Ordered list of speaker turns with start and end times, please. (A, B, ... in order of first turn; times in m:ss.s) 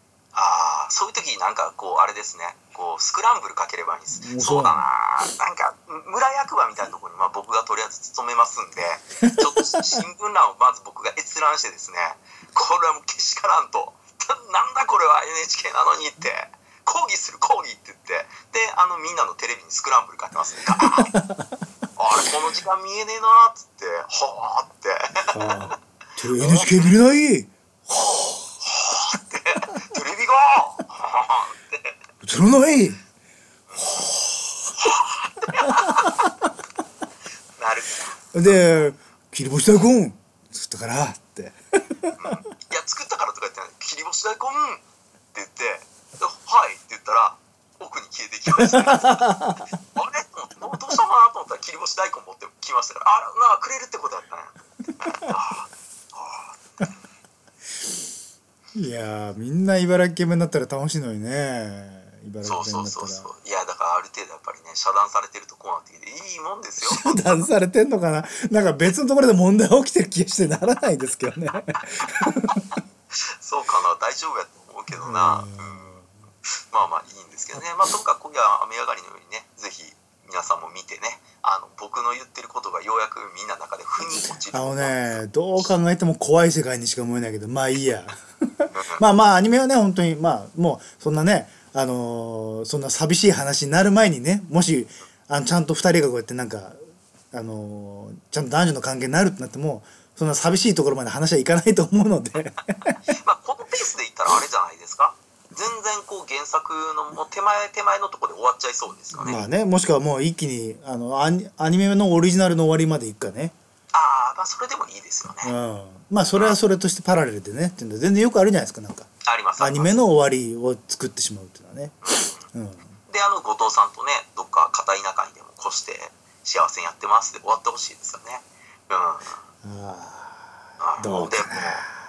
0:00.3-0:21.1 A
0:04.1-0:04.8 B
0:09.2-0:10.0 B
0:20.8-0:21.5 B
0:22.0-0:25.7 A
0:25.3-0:28.4 B
0:26.3-0:26.9 A
0:28.6-0:32.0 A
0:32.2-0:33.0 B
0:33.7-0:34.1 A
0:33.8-0:34.8 B
0:34.8-0:36.2 A
0:35.6-0:36.3 B
0:37.6-0:38.5 A
0:38.3-0:42.2 B
0:42.2-0:44.8 A
0:45.3-0:49.4 A
0:48.6-0:49.7 B
0:49.9-0:56.9 A
0:58.7-1:03.3 B
1:02.4-1:07.5 A
1:06.8-1:12.6 B
1:12.2-1:12.5 A
1:13.4-1:16.0 A
1:14.9-1:16.1 B
1:16.7-1:25.2 A
1:24.5-1:36.8 B
1:28.7-1:29.0 A
1:37.3-1:43.0 B
1:43.1-1:49.4 A
1:49.2-1:53.5 B
1:53.9-1:55.5 A
1:55.4-2:02.0 B
1:59.2-2:00.0 A
2:02.0-2:02.5 A
2:02.5-2:02.9 B
2:03.1-2:09.4 A
2:09.6-2:10.4 B
2:10.8-2:11.8 A
2:11.0-2:11.9 B